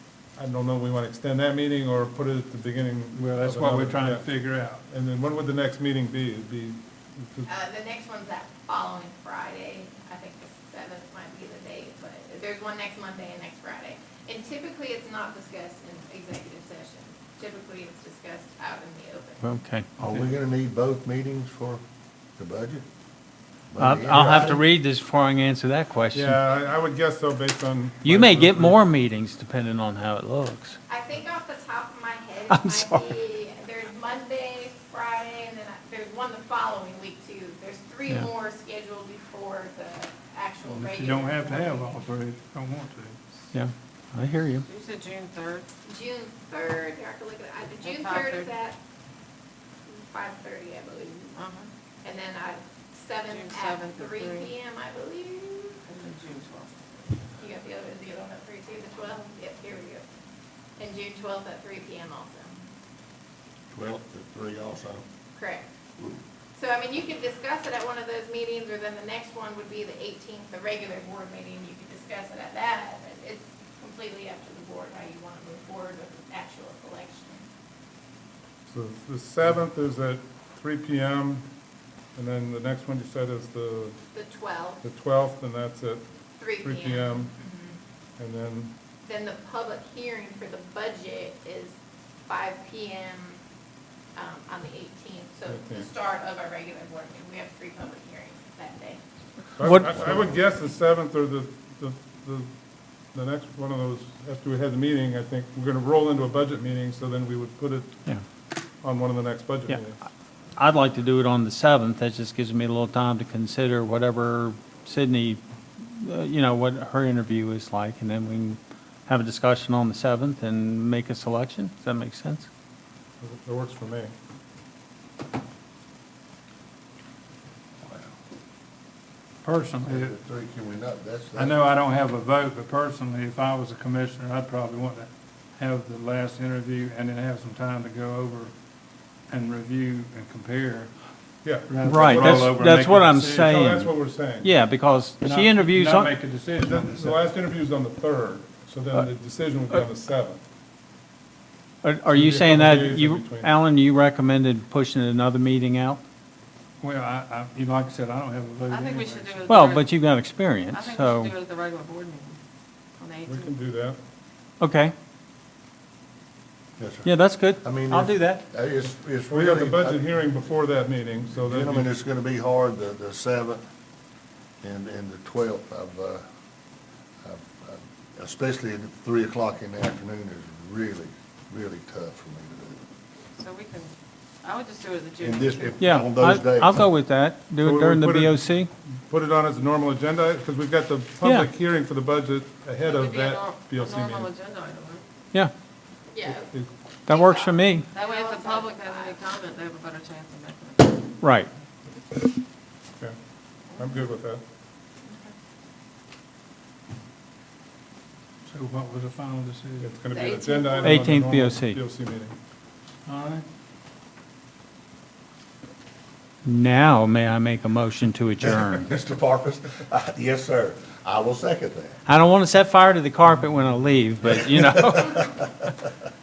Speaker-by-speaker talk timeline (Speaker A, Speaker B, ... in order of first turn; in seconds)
Speaker A: 0.3-7.5, 26.1-28.9, 78.7-81.5, 82.2-84.0, 84.8-86.1, 86.6-87.3, 88.2-88.8, 95.5-95.9, 99.6-102.5, 103.1-108.1, 108.8-110.0, 123.2-124.1, 141.4-142.6, 143.4-144.5, 146.6-150.4, 152.1-153.5, 163.3-164.0, 169.3-171.9, 187.6-188.4, 189.1-194.3, 196.3-196.7, 203.8-204.4, 209.8-212.3
Speaker B: 3.1-4.8, 40.6-43.2, 129.4-130.1, 131.3-138.5, 139.3-140.9, 141.7-143.6, 145.2-147.2, 156.8-159.6, 208.5-210.0, 213.1-213.5
Speaker C: 7.5-19.6, 30.9-41.9, 45.9-48.8, 49.9-51.4, 52.0-55.8, 57.4-60.0, 60.8-62.6, 65.4-65.7, 66.5-77.5, 84.1-84.8, 86.4-87.8, 89.0-91.8, 92.3-93.4, 94.2-99.0, 196.1-196.6, 197.1-199.2
Speaker D: 19.4-19.9, 23.8-26.4, 28.0-30.8, 32.5-33.1, 43.5-44.7, 99.6-100.1, 110.6-122.5, 141.8-146.1, 151.8-156.0, 159.5-161.3, 164.6-164.9, 167.0-168.4, 185.8-188.7, 191.2-191.5, 197.1-197.9, 201.2-201.5, 210.8-211.8, 216.4-218.9, 222.1-225.7
Speaker E: 20.0-21.8, 22.4-22.8, 23.7-24.6, 63.7-65.1, 66.0-66.2, 127.8-128.1, 129.8-131.6, 166.8-167.1, 167.6-170.0, 171.3-173.6, 174.6-176.2, 177.2-182.8, 185.2-186.8, 218.4-222.0, 224.4-225.4
Speaker F: 44.6-45.7, 47.8-48.5, 51.4-51.7, 53.3-54.5, 55.9-57.1, 158.7-159.9, 160.7-162.4, 163.0-163.5, 183.4-185.9, 192.8-195.1, 197.9-201.1, 205.1-205.3, 210.1-211.0